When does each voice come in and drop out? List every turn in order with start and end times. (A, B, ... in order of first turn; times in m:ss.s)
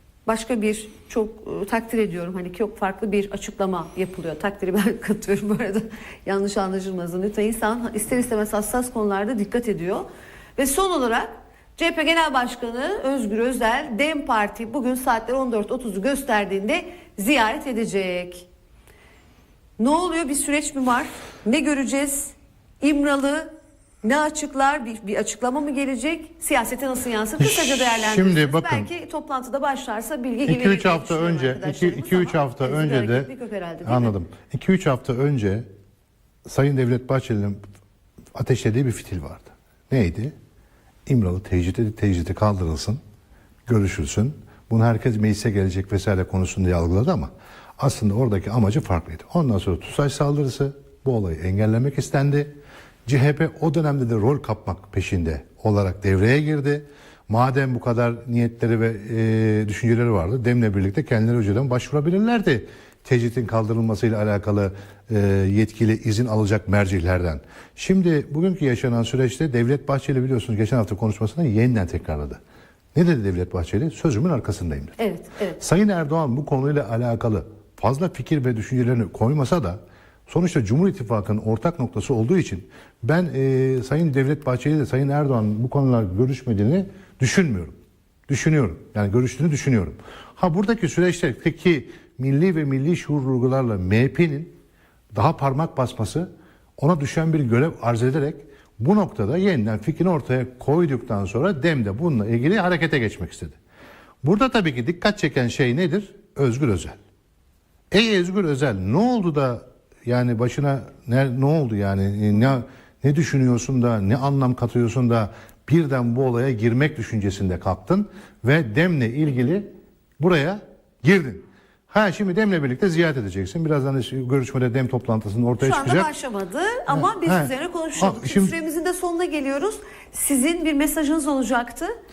0:00.3-0:18.5 A
0:19.8-0:23.5 A
0:24.0-0:34.2 A
0:27.4-0:28.9 B
0:30.5-0:33.3 B
0:33.8-0:35.6 B
0:36.4-0:37.6 B
0:38.4-0:40.3 B
0:41.1-0:43.0 B
0:43.7-0:52.6 B
0:53.1-1:12.4 B
1:12.9-1:15.0 B
1:15.0-1:15.6 A
1:15.6-1:27.8 B
1:28.3-1:34.6 B
1:35.1-1:43.6 B
1:44.2-1:47.0 B
1:47.9-1:59.7 B
2:00.2-2:06.1 B
2:05.6-2:11.9 A
2:06.9-2:08.5 B